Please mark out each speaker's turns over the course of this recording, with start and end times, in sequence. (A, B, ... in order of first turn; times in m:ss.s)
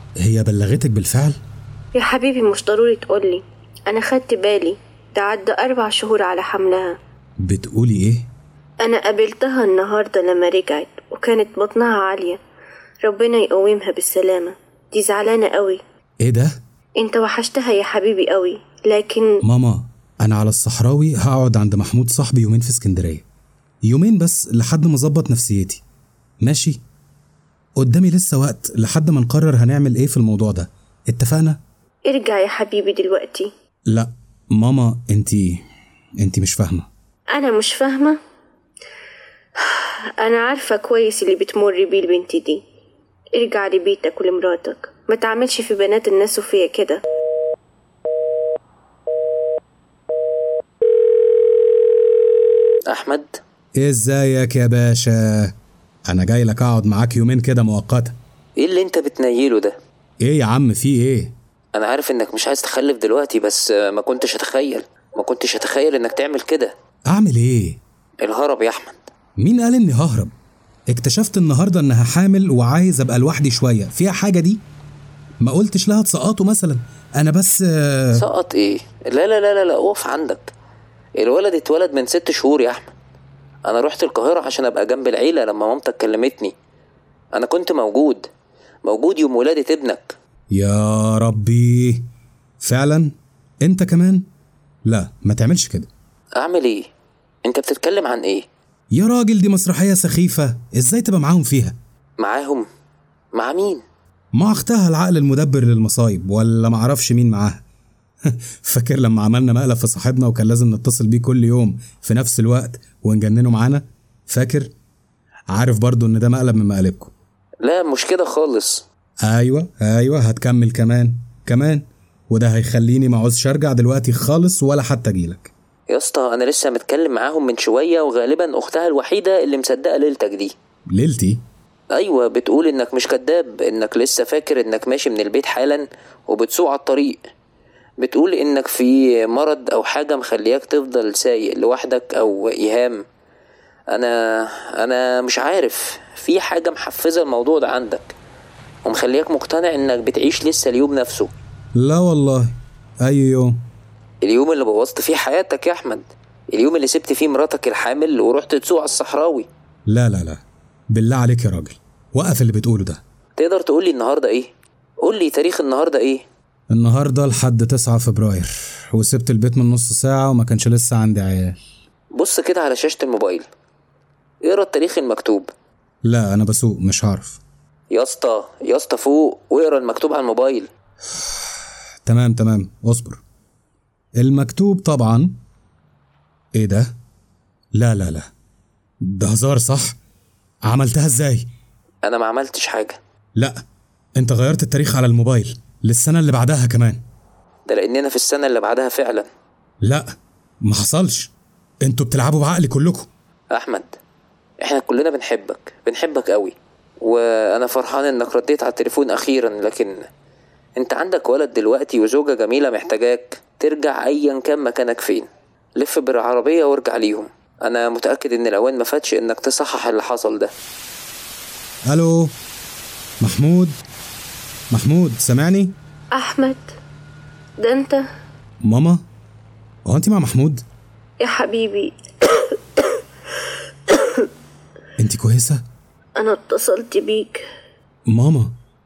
0:00.2-0:01.4 A
0:01.9-0:07.0 B
0:07.4-0:08.3 A
0:08.8-0:12.4 B
0:13.0-0:15.8 B
0:16.2-0:16.6 A
0:17.0-0:19.4 B
0:19.4-0:23.2 A
0:23.8-0:25.8 A
0:26.4-0:26.8 A
0:27.8-0:31.6 A
0:32.0-0:33.5 B
0:33.9-0:35.6 A
0:36.2-0:36.9 A
0:37.3-0:38.2 B
0:39.8-0:42.6 B
0:43.3-0:47.0 B
0:52.9-0:53.4 C
0:53.8-0:55.5 A
0:56.1-0:58.2 A
0:58.6-0:59.8 C
1:00.2-1:01.3 A
1:01.7-1:06.7 C
1:07.1-1:07.8 A
1:08.2-1:09.0 C
1:09.4-1:10.3 A
1:10.9-1:14.6 A
1:15.4-1:18.2 A
1:18.1-1:20.5 C
1:21.2-1:22.9 C
1:23.7-1:26.5 C
1:27.3-1:28.3 C
1:28.8-1:30.1 C
1:30.5-1:32.1 A
1:32.6-1:34.2 A
1:34.8-1:35.9 A
1:36.4-1:36.9 C
1:37.4-1:38.4 C
1:38.9-1:41.8 A
1:42.2-1:42.6 C
1:43.3-1:43.8 C
1:44.3-1:47.6 A
1:48.3-1:54.7 A
1:55.5-1:57.1 A
1:57.6-1:58.8 C
1:59.2-2:05.5 A
2:05.9-2:10.5 C
2:10.9-2:11.4 A
2:11.9-2:17.2 C
2:18.0-2:23.0 C
2:23.9-2:28.1 C
2:28.8-2:31.3 C
2:31.7-2:32.5 A
2:33.0-2:33.6 A
2:34.2-2:39.5 C
2:39.9-2:43.0 A
2:43.4-2:44.5 C
2:45.0-2:46.2 C
2:46.7-2:51.6 A
2:52.1-2:53.4 C
2:54.4-2:55.5 C
2:56.0-2:57.4 A
2:57.9-3:00.6 C
3:02.0-3:03.2 A
3:04.2-3:05.4 A
3:06.5-3:06.9 A
3:07.8-3:08.3 A
3:09.0-3:10.0 A
3:10.6-3:11.5 A
3:12.0-3:13.0 C
3:14.2-3:17.0 A
3:17.7-3:19.3 C
3:19.8-3:20.1 A
3:20.6-3:21.3 A
3:21.8-3:23.1 A
3:23.5-3:23.9 C
3:24.6-3:30.1 C
3:30.8-3:40.5 C
3:41.9-3:42.3 A
3:43.2-3:43.8 A
3:44.7-3:45.7 A
3:46.1-3:46.7 B
3:47.6-3:48.0 B
3:48.6-3:49.0 A
3:49.8-3:50.6 A
3:51.2-3:52.5 B
3:53.9-3:54.3 B
3:55.0-3:55.6 A
3:56.2-3:57.4 B
3:58.1-3:58.5 A